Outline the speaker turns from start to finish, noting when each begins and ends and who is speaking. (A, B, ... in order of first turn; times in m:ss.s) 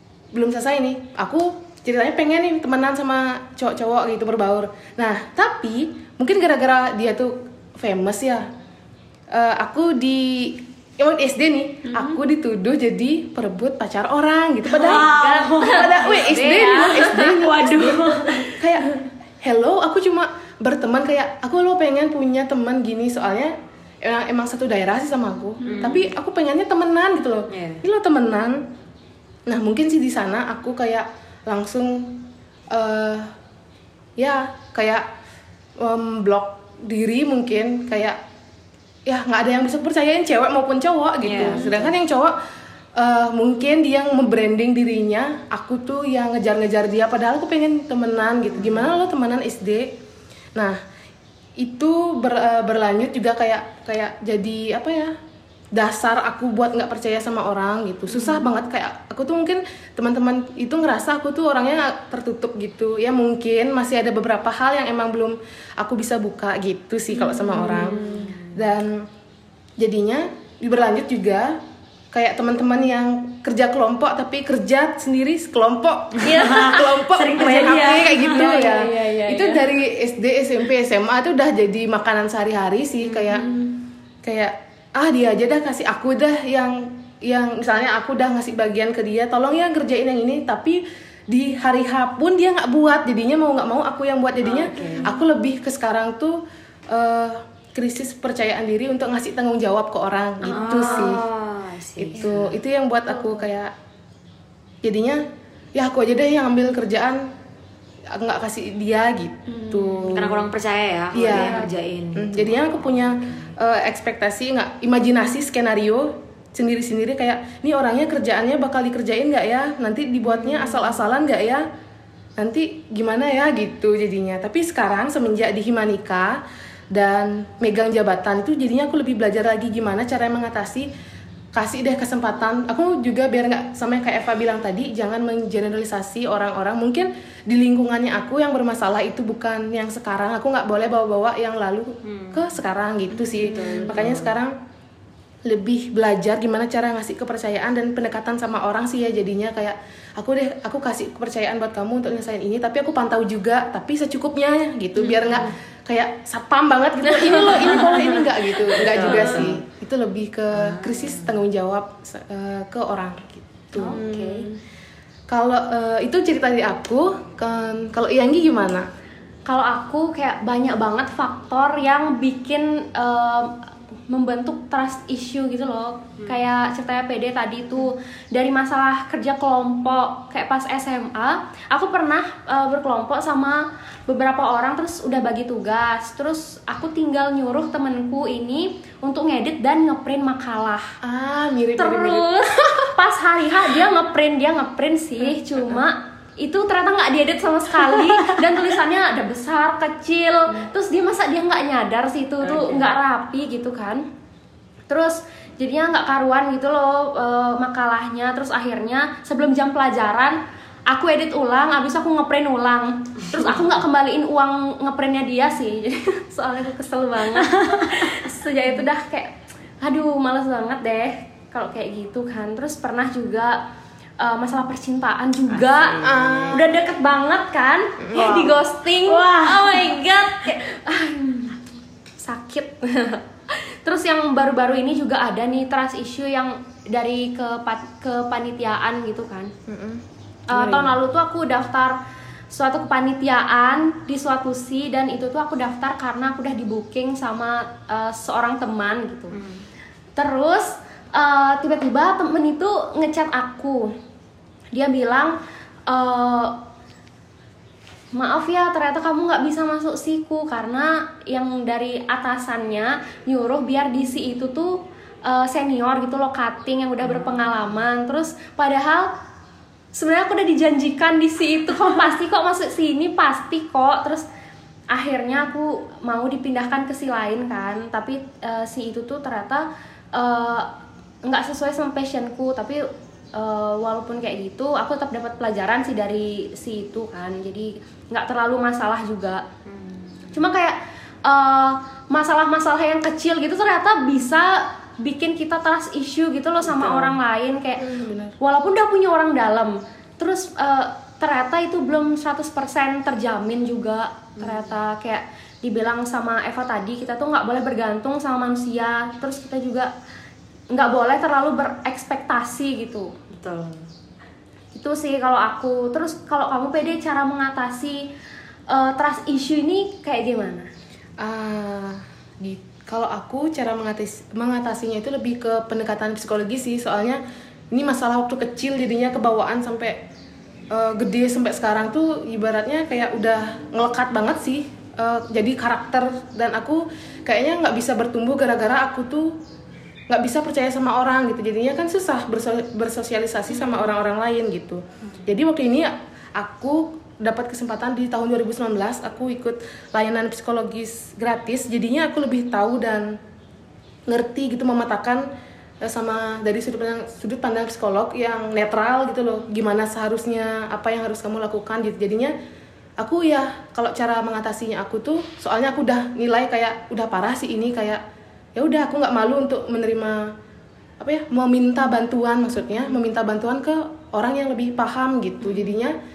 0:00.3-0:08.5 A
0:09.3-0:28.7 A
0:11.9-0:12.2 B
0:14.7-0:18.6 C
0:14.8-0:17.4 B
0:25.6-0:26.1 B
0:25.6-0:26.1 C
0:27.5-0:27.8 C
0:29.5-0:33.3 A
0:34.2-0:35.1 A
0:35.8-0:38.2 A
0:39.1-0:42.4 A
0:41.2-0:41.9 C
0:43.0-0:50.0 A
0:48.6-0:48.9 C
0:51.6-0:55.1 A
0:55.7-1:09.1 A
0:58.1-0:58.5 B
1:07.1-1:08.3 B
1:07.7-1:08.6 C
1:09.8-1:11.6 A
1:12.1-1:23.5 A
1:16.2-1:18.6 C
1:16.2-1:16.9 B
1:17.8-1:19.7 B
1:23.2-1:23.7 B
1:24.2-1:41.2 A
1:34.4-1:35.1 C
1:40.4-1:41.2 B
1:40.5-1:42.5 C
1:42.0-1:43.7 A
1:42.2-1:42.4 B
1:43.1-1:43.4 B
1:44.8-1:45.2 A
1:45.8-1:47.3 A
1:48.1-1:50.4 A
1:49.5-1:50.2 B
1:50.1-1:53.2 C
1:51.1-2:01.6 A
1:51.3-1:51.7 B
2:00.3-2:00.9 B
2:02.4-2:06.4 A
2:06.9-2:10.9 A
2:11.5-2:24.6 A
2:22.0-2:22.5 C
2:23.2-2:24.0 B
2:23.3-2:24.4 C
2:25.4-2:44.0 A
2:35.0-2:35.4 B
2:35.2-2:35.5 C
2:37.1-2:38.2 B
2:37.5-2:38.0 C
2:38.7-2:39.6 C
2:38.9-2:39.5 B
2:40.5-2:41.4 C
2:43.8-2:44.5 C
2:43.8-2:44.6 B
2:45.3-2:48.9 A
2:49.5-2:53.6 B
2:54.1-3:10.9 B
3:11.0-3:12.9 A
3:11.8-3:24.1 B
3:22.4-3:22.9 C
3:24.9-3:43.6 B
3:33.3-3:33.6 C
3:37.4-3:38.1 C
3:44.2-3:51.7 B
3:45.5-3:46.7 C
3:46.0-3:46.7 A
3:48.0-3:48.5 A
3:48.2-3:50.0 C
3:52.2-3:59.5 B
3:59.7-4:01.0 A
4:00.5-4:02.0 B
4:02.5-4:09.4 B
4:09.3-4:09.6 C
4:10.2-4:14.0 B
4:14.7-4:15.4 B
4:15.9-4:16.6 B
4:18.1-4:29.1 B
4:27.1-4:27.6 C
4:29.9-4:34.3 B
4:34.9-4:40.7 B
4:41.2-4:49.4 B
4:49.7-4:50.1 C
4:50.3-4:57.9 B
4:56.7-4:57.2 C
4:57.8-4:58.4 A
4:58.4-5:09.9 B
5:04.4-5:04.8 C
5:10.7-5:13.1 B
5:13.3-5:13.9 C
5:14.8-5:18.1 B
5:18.7-5:20.7 B
5:21.2-5:27.2 A
5:27.7-5:30.0 A
5:30.7-5:39.4 A
5:40.1-5:53.2 A
5:54.1-5:55.3 A
5:55.8-6:02.3 A
6:03.0-6:08.0 A
6:08.6-6:10.3 A
6:11.0-6:16.0 A